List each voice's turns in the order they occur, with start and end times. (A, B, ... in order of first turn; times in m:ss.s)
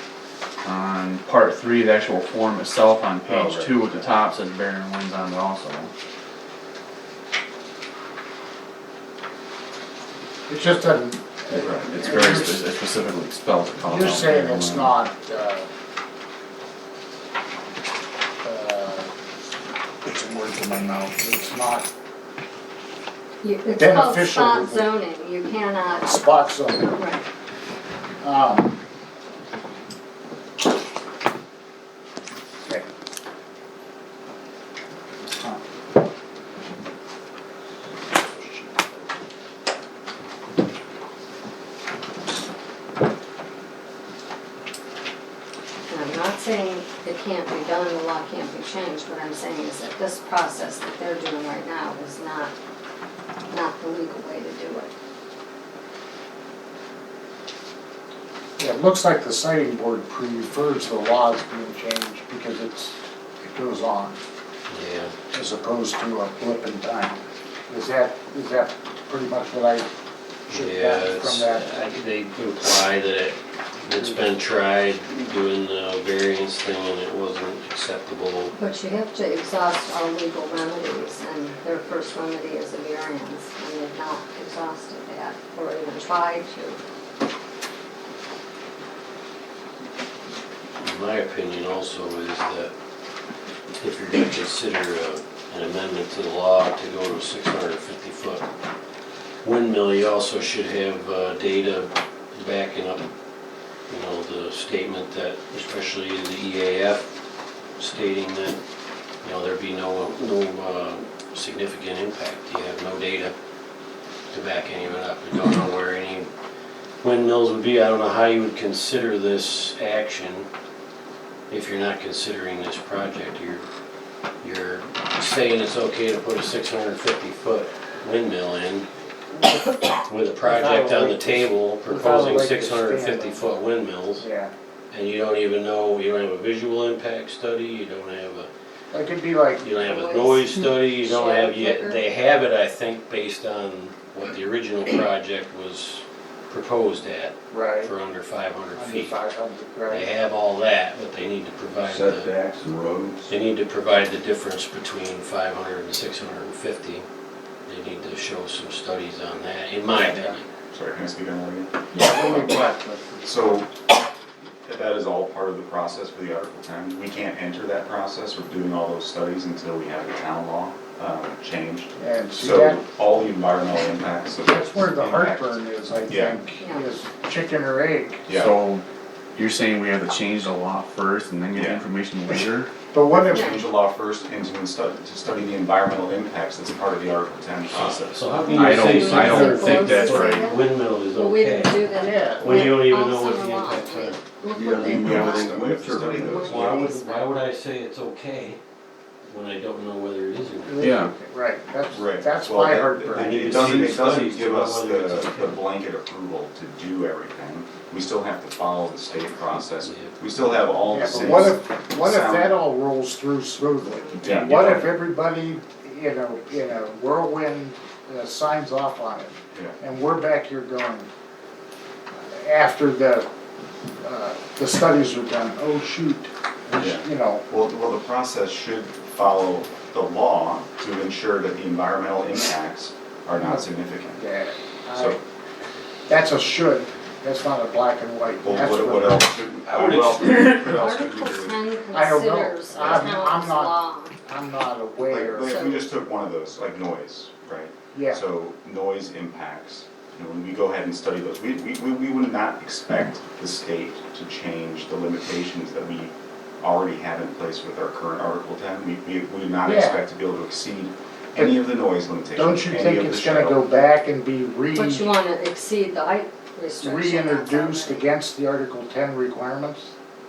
0:00.6-0:05.9 A
0:03.2-0:03.9 B
0:10.5-0:12.6 C
0:11.5-0:11.9 B
0:11.7-0:14.9 A
0:13.8-0:15.7 C
0:18.4-0:19.1 C
0:20.0-0:21.9 C
0:23.4-0:26.4 D
0:23.7-0:24.9 C
0:25.9-0:27.0 C
0:26.9-0:27.2 D
0:28.2-0:28.8 C
0:45.9-0:52.5 D
0:53.5-0:54.9 D
0:58.6-1:04.2 C
1:04.7-1:05.1 E
1:05.3-1:09.9 C
1:10.5-1:11.6 C
1:10.5-1:18.5 E
1:18.5-1:26.8 D
1:30.8-1:32.7 E
1:33.8-1:38.5 E
1:39.4-1:43.1 E
1:43.9-1:47.1 E
1:47.8-1:48.6 E
1:49.2-1:53.3 E
1:54.3-1:56.3 E
1:57.0-2:00.5 E
2:01.5-2:03.6 E
2:04.4-2:08.9 E
2:09.3-2:09.7 C
2:10.0-2:14.2 E
2:10.4-2:13.5 C
2:14.2-2:14.5 C
2:14.9-2:18.5 E
2:18.9-2:20.4 C
2:19.6-2:29.2 E
2:19.7-2:22.0 D
2:27.5-2:27.9 C
2:28.7-2:30.1 C
2:29.9-2:32.3 E
2:31.8-2:33.3 F
2:33.2-2:37.1 E
2:37.7-2:40.5 E
2:40.7-2:42.7 B
2:41.9-2:43.6 C
2:43.2-2:43.7 B
2:44.6-2:56.4 B
2:52.0-2:52.8 C
2:54.4-2:58.2 C
2:56.6-2:56.9 D
2:58.3-2:58.5 B
2:58.3-2:58.8 A
2:59.3-3:02.7 A
3:01.5-3:01.9 B
3:02.9-3:03.5 C
3:03.1-3:08.2 B
3:03.3-3:03.6 D
3:07.7-3:14.2 E
3:08.5-3:17.3 D
3:08.5-3:10.5 A
3:11.9-3:12.8 C
3:14.5-3:16.8 F
3:14.9-3:16.2 A
3:15.1-3:16.8 B
3:16.4-3:18.6 E
3:19.3-3:20.8 E
3:20.6-3:23.6 C
3:20.8-3:21.1 A
3:21.9-3:32.5 B
3:23.1-3:25.6 E
3:29.8-3:30.1 E
3:30.9-3:41.1 C
3:34.0-3:35.0 B
3:39.5-3:39.8 B
3:42.2-3:43.3 C
3:44.0-3:47.4 C
3:46.8-3:54.2 B
3:53.4-3:53.6 C
3:54.2-3:55.2 C
3:54.9-3:55.2 B
3:56.1-3:59.4 C
3:58.4-4:01.6 B
3:59.6-4:00.6 E
4:00.2-4:04.2 D
4:01.9-4:05.6 C
4:02.8-4:03.1 B
4:05.0-4:23.7 B
4:05.4-4:05.8 D
4:07.9-4:08.2 C
4:19.6-4:20.0 C
4:22.3-4:25.1 C
4:24.7-4:28.1 D
4:26.8-4:29.9 C